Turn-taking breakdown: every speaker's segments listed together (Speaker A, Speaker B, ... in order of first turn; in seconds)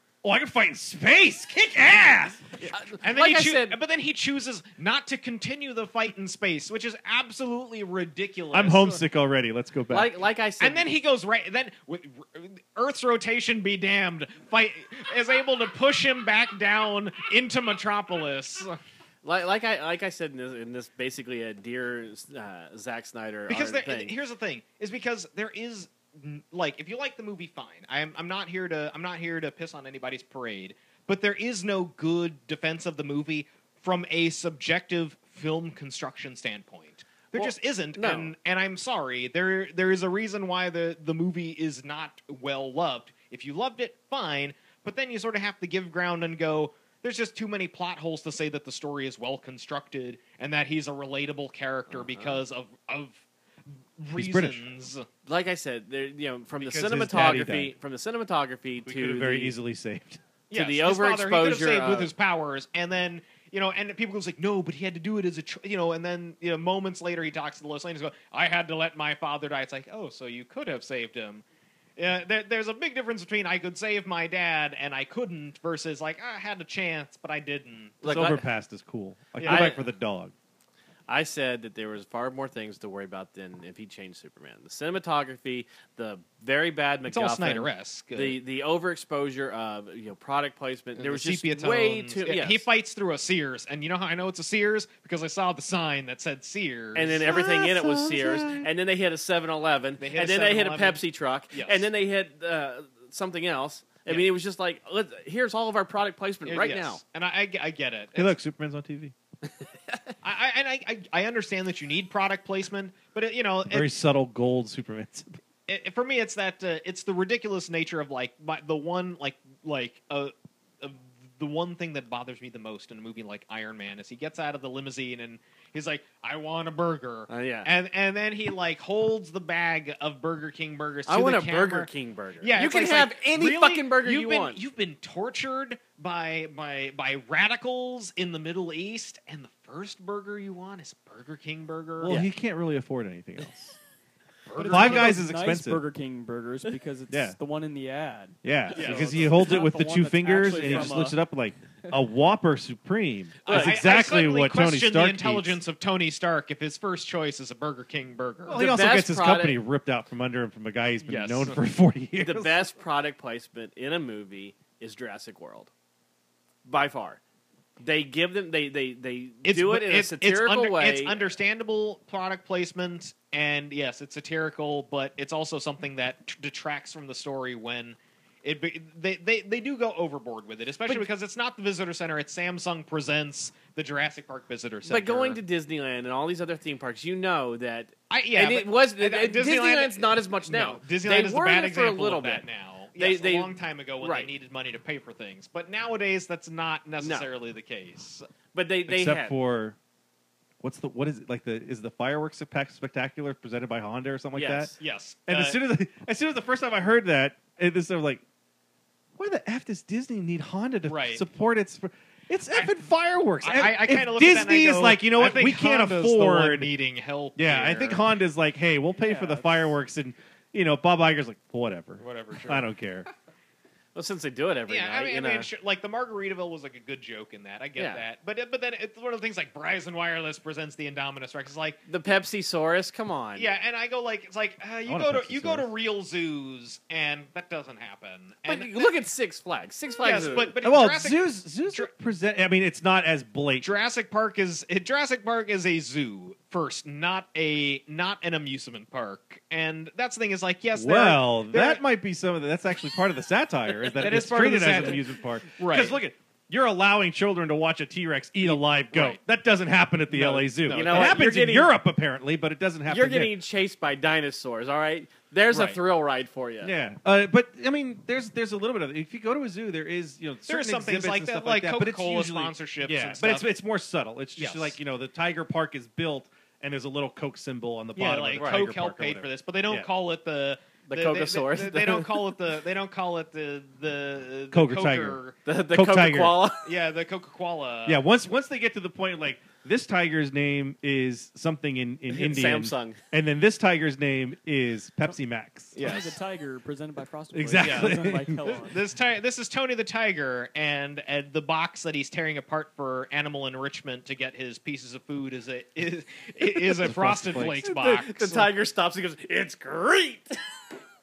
Speaker A: 0.2-2.6, 8.5-10.2, 54.1-54.6, 56.6-57.7, 58.9-60.2, 78.0-80.3, 97.3-98.7, 108.1-109.1, 113.7-115.4, 142.0-143.8, 144.6-145.8, 147.1-147.4, 148.4-155.6, 158.4-162.6, 198.9-199.8, 200.6-204.7, 205.3-208.2, 209.2-216.7, 217.3-223.1, 234.8-235.7, 240.6-243.7, 250.7-263.3, 266.6-279.9, 284.5-286.4, 287.9-295.8, 297.3-298.4, 306.7-307.6
Speaker B: 2.6-9.0, 10.6-18.8, 23.5-53.2, 54.0-55.1, 60.5-71.4, 72.0-78.0, 79.4-79.8, 87.1-88.4, 91.0-97.3, 100.0-101.9, 106.5-108.3, 110.2-113.9, 115.7-131.9, 132.4-142.1, 144.4-145.2, 148.8-149.5, 150.6-150.9, 153.5-158.6, 161.0-161.6, 169.4-185.4, 188.1-198.3, 204.8-205.6, 210.8-211.2, 213.4-218.1, 222.0-222.7, 224.7-231.8, 233.3-238.9, 240.0-241.9, 243.6-251.8, 254.0-256.0, 258.4-259.2, 260.1-261.2, 265.5-265.8, 270.5-273.5, 274.4-274.8, 277.9-285.4, 286.6-288.0, 295.8-296.2, 297.6-308.5
Speaker C: 2.7-3.8, 9.9-10.9, 19.2-24.1, 37.3-38.3, 51.9-52.4, 55.2-59.5, 60.5-62.1, 78.0-78.4, 79.5-79.8, 81.1-92.7, 96.9-107.0, 127.3-127.7, 131.1-134.6, 153.4-153.8, 158.5-159.6, 162.2-165.7, 166.6-167.2, 167.8-171.2, 184.8-192.4, 193.0-194.3, 197.0-197.3, 198.5-199.4, 204.3-204.8, 223.9-225.5, 227.8-228.0, 231.9-233.5, 238.4-240.5, 260.7-261.7, 262.9-266.7, 278.4-278.6, 280.9-282.3, 285.4-286.7, 292.1-293.0, 307.6-310.4
Speaker D: 144.6-151.2, 295.8-298.8